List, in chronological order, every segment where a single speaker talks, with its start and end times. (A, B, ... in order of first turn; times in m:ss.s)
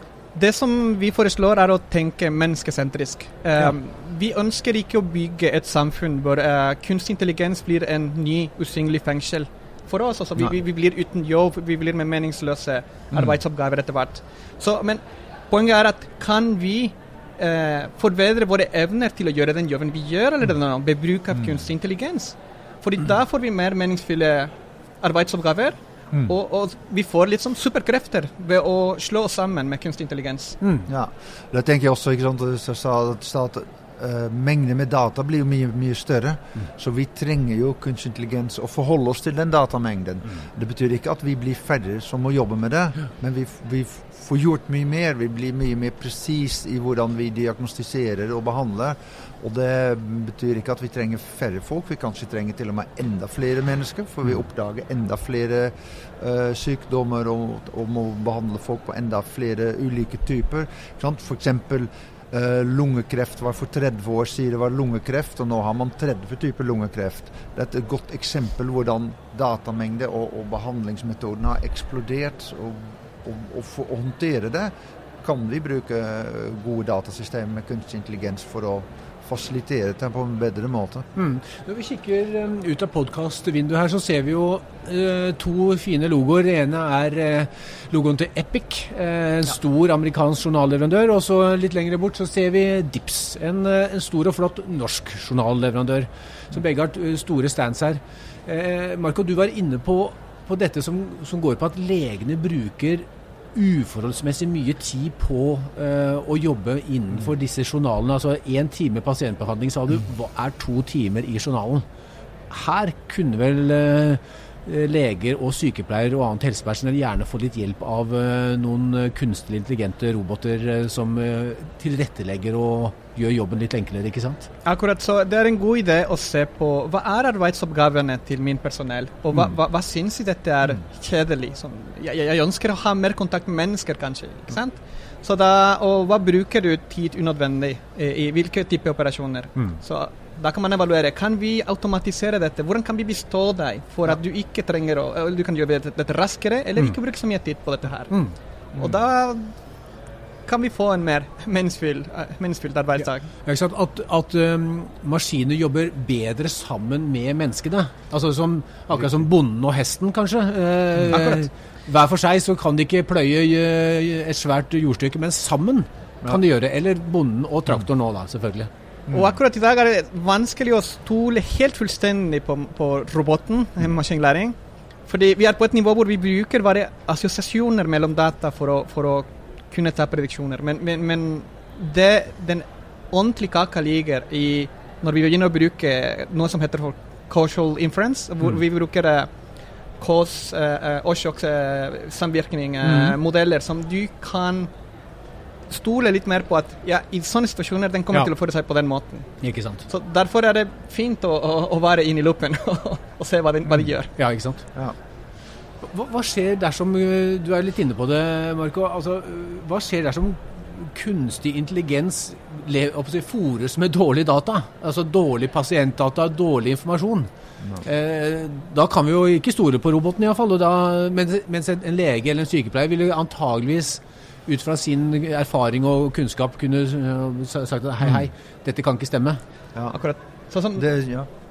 0:00.3-0:30.6 A
0:13.1-0:13.4 B
0:21.3-0:21.6 B
0:30.6-0:30.9 C
0:30.9-1:21.1 B
1:21.2-1:51.9 C
1:52.5-2:04.5 C
2:04.6-2:28.2 A
2:28.1-2:28.4 C
2:28.8-2:29.5 A
2:30.5-2:33.3 A
2:33.4-2:48.7 C
2:49.1-2:49.3 B
2:49.1-2:54.6 A
2:55.1-3:09.3 A
3:10.0-3:14.7 A
3:12.8-3:13.2 C
3:15.7-3:24.1 A
3:19.4-3:19.9 C
3:24.2-3:24.6 C
3:25.8-3:37.3 C
3:37.8-3:49.4 C
3:49.9-3:50.9 A
3:50.8-3:51.3 B